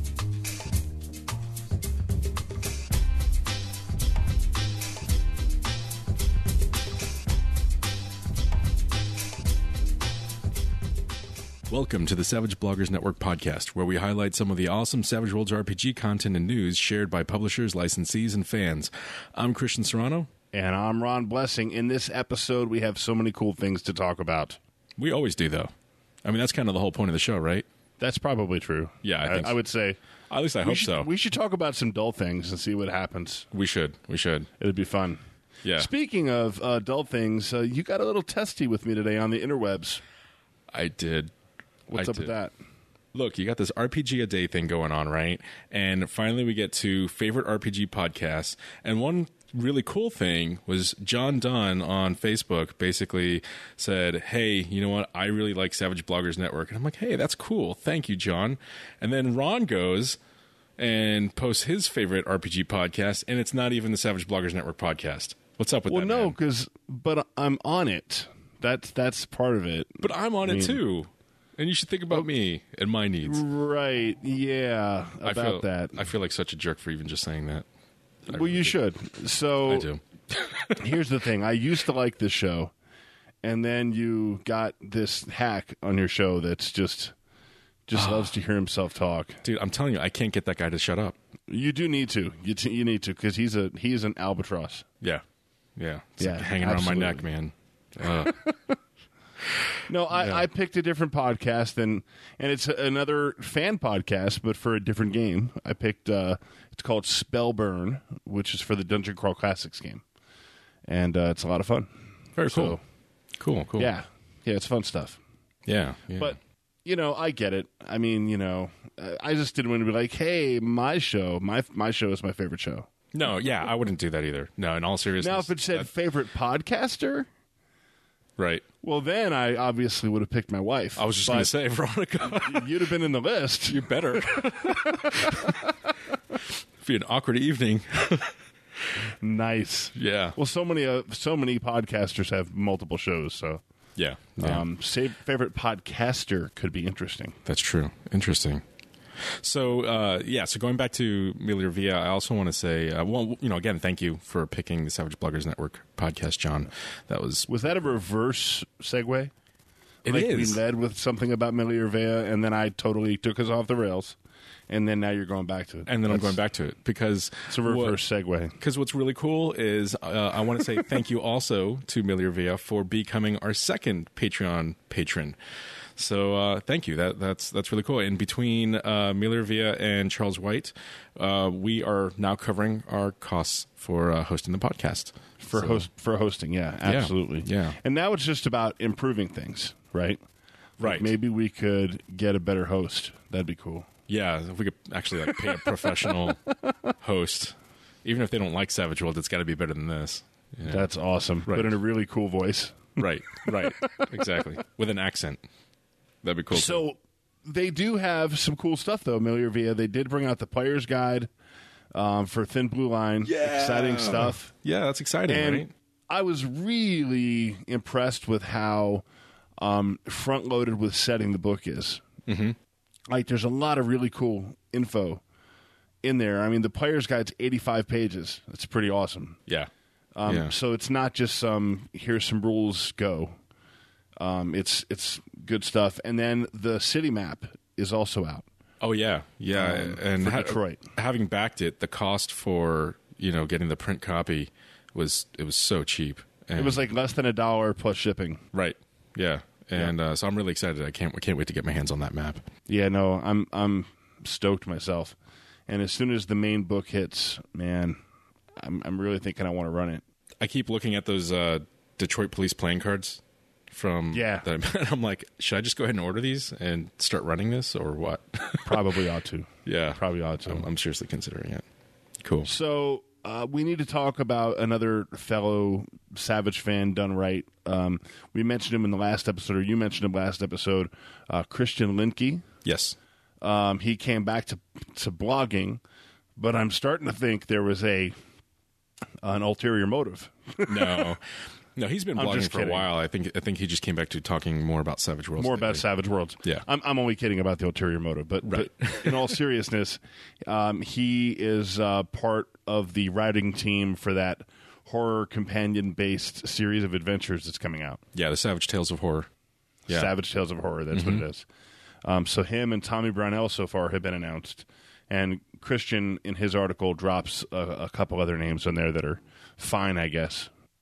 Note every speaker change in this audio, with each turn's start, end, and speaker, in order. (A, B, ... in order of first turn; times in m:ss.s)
0:11.7-0:20.3 A
0:20.5-0:24.6 B
0:25.0-0:25.7 A
0:26.2-0:27.6 A
0:28.0-0:30.0 B
0:29.0-0:29.6 A
0:30.3-0:31.1 A
0:30.6-0:33.5 B
0:33.5-0:34.5 A
0:34.6-0:35.2 B
0:35.6-0:35.9 A
0:35.7-0:40.0 B
0:40.7-0:41.3 A
0:41.9-0:42.5 B
0:41.9-0:42.3 A
0:43.1-1:00.2 A
1:00.8-1:06.4 A
1:05.9-1:10.8 B
1:10.0-1:13.4 A
1:13.2-1:16.0 B
1:15.2-1:17.6 A
1:18.3-1:18.7 A
1:18.3-1:19.9 B
1:19.6-1:20.8 A
1:20.8-1:22.7 B
1:23.4-1:27.1 B
1:27.9-1:29.4 B
1:29.4-1:31.2 A
1:31.5-1:34.8 B
1:35.8-1:38.4 A
1:36.2-1:37.2 B
1:39.9-1:50.0 B
1:40.1-1:40.4 A
1:50.9-1:51.9 B
1:52.4-1:52.8 A
1:52.4-1:52.8 B
1:53.4-1:53.9 A
1:53.8-1:55.2 B
1:55.6-1:56.3 A
1:56.1-2:02.9 B
2:03.1-2:05.9 A
2:05.2-2:07.3 B
2:08.4-2:08.6 A
2:08.8-2:11.5 B
2:11.0-2:12.9 A
2:12.4-2:15.7 B
2:13.7-2:15.6 A
2:16.8-2:18.3 A
2:19.2-2:23.6 B
2:19.9-2:20.4 A
2:24.0-2:24.6 A
2:24.4-2:27.4 B
2:27.4-2:28.6 A
2:29.4-2:37.7 A
2:37.5-2:39.3 B
2:40.0-2:40.6 A
2:40.0-2:44.2 B
2:44.7-2:46.4 B
2:45.9-2:48.0 A
2:47.5-2:48.6 B
2:48.6-2:55.4 A
2:56.0-3:05.8 A
3:05.4-3:10.2 B
3:06.8-3:07.8 A
3:10.8-3:13.9 B
3:10.8-3:11.1 A
3:14.1-3:16.4 A
3:15.3-3:16.7 B
3:17.0-3:20.9 A
3:20.7-3:24.1 B
3:21.5-3:21.7 A
3:23.0-3:25.4 A
3:26.2-3:26.8 A
3:26.5-3:31.3 B
3:31.9-3:34.5 B
3:33.2-3:35.7 A
3:35.3-3:39.0 B
3:39.6-3:42.0 B
3:42.3-3:42.6 A
3:43.1-3:45.2 B
3:46.0-3:49.4 B
3:50.1-3:53.4 B
3:50.2-3:50.5 A
3:54.2-3:58.4 B
3:58.8-4:06.8 A
3:59.5-4:00.8 B
4:06.6-4:08.4 B
4:08.5-4:12.4 A
4:12.7-4:15.2 B
4:15.7-4:18.0 B
4:18.6-4:20.0 B
4:20.4-4:28.9 A
4:24.1-4:24.5 B
4:28.6-4:30.6 B
4:29.6-4:31.6 A
4:32.2-4:32.5 A
4:32.4-4:42.4 B
4:42.6-4:43.0 A
4:43.4-4:45.8 B
4:46.4-4:48.1 B
4:49.2-4:51.1 B
4:50.7-4:51.2 A
4:51.8-4:55.8 A
4:52.2-4:52.9 B
4:55.4-5:08.0 B
4:58.4-4:59.3 A
5:08.1-5:09.3 A
5:09.9-5:11.4 B
5:10.9-5:11.2 A
5:12.0-5:20.5 B